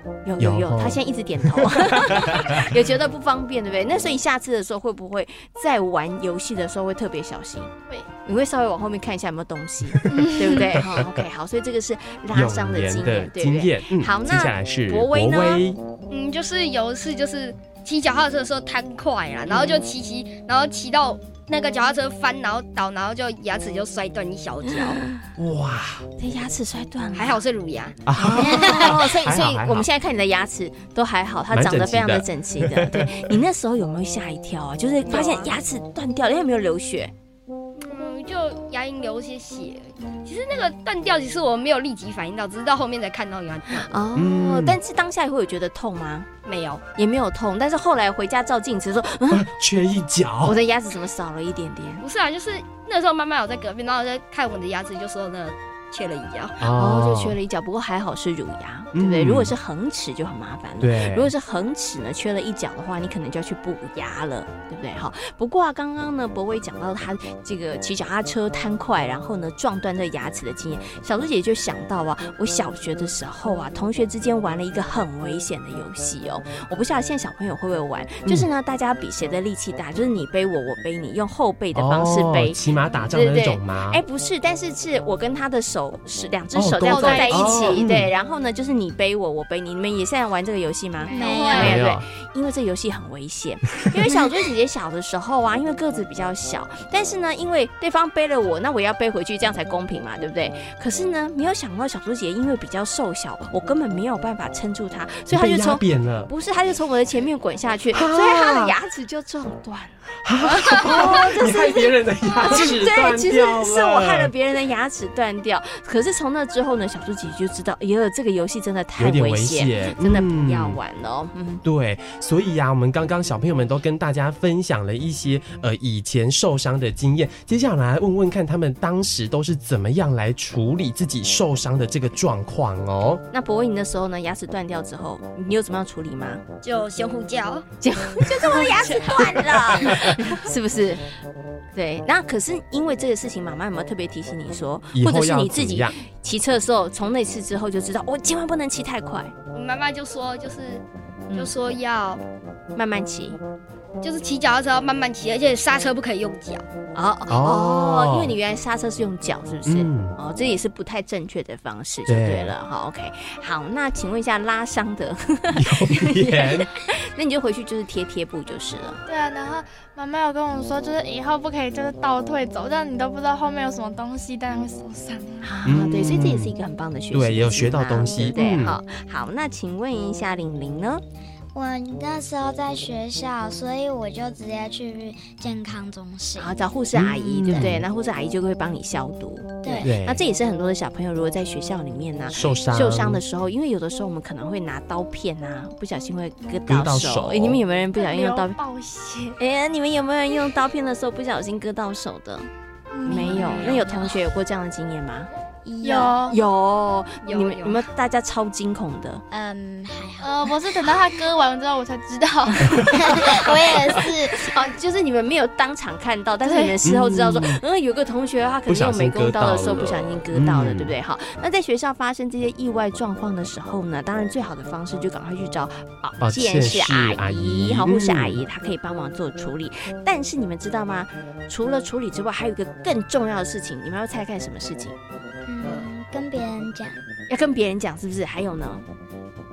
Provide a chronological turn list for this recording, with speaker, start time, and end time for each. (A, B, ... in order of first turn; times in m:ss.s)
0:00.2-0:07.7 A
0:00.4-0:02.7 B
0:08.2-0:15.6 A
0:10.0-0:10.9 B
0:12.3-0:15.8 B
0:16.1-0:25.1 C
0:24.7-0:25.2 A
0:25.4-0:26.1 B
0:26.2-0:27.4 A
0:27.1-0:28.9 C
0:28.1-0:29.9 B
0:28.2-0:37.1 A
0:31.5-0:33.4 B
0:35.1-0:35.4 C
0:37.8-0:43.9 C
0:43.7-0:46.3 A
0:44.2-0:44.8 B
0:46.4-0:46.8 C
0:46.9-0:49.5 A
0:49.3-0:50.6 B
0:50.4-0:52.0 A
0:52.0-0:56.6 C
0:56.6-0:57.4 B
0:56.7-1:22.6 A
0:58.9-0:59.5 B
1:00.8-1:01.3 B
1:21.7-1:24.0 B
1:23.1-2:01.6 A
1:26.5-1:28.1 B
1:26.9-1:27.8 C
1:27.0-1:27.4 D
1:31.1-1:31.7 E
1:31.1-1:31.8 D
1:31.6-1:32.0 B
1:45.3-1:46.3 B
1:47.9-1:48.8 B
1:50.2-1:54.3 B
1:59.0-2:00.8 B
2:01.6-2:13.2 B
2:13.3-2:16.4 A
2:16.6-2:17.6 C
2:17.8-2:21.1 A
2:18.8-2:19.2 C
2:21.7-2:29.3 A
2:24.9-2:26.0 B
2:29.5-2:32.2 C
2:32.7-2:33.4 A
2:34.0-2:36.7 C
2:37.0-2:49.0 A
2:37.3-2:38.4 B
2:39.6-2:40.2 B
2:42.1-2:42.6 B
2:45.5-2:46.7 B
2:49.1-2:55.5 D
2:55.4-3:01.0 A
2:55.7-2:56.6 B
2:57.1-2:58.8 B
3:01.5-3:06.6 E
3:06.4-3:18.6 A
3:06.9-3:07.9 B
3:07.4-3:07.7 E
3:09.6-3:09.9 E
3:09.8-3:10.2 B
3:12.3-3:13.2 B
3:16.7-3:17.6 B
3:18.0-3:19.4 D
3:19.4-3:22.5 A
3:22.9-3:23.8 D
3:23.0-3:25.3 A
3:25.6-3:26.2 E
3:25.8-3:26.4 D
3:26.3-3:29.2 A
3:27.2-3:27.8 C
3:29.3-3:30.8 E
3:30.2-3:33.4 D
3:33.1-3:34.4 E
3:34.4-3:55.0 A
3:36.4-3:36.7 D
3:36.8-3:37.6 B
3:38.7-3:40.9 B
3:46.2-3:48.4 B
3:55.4-3:57.0 E
3:57.3-3:58.8 A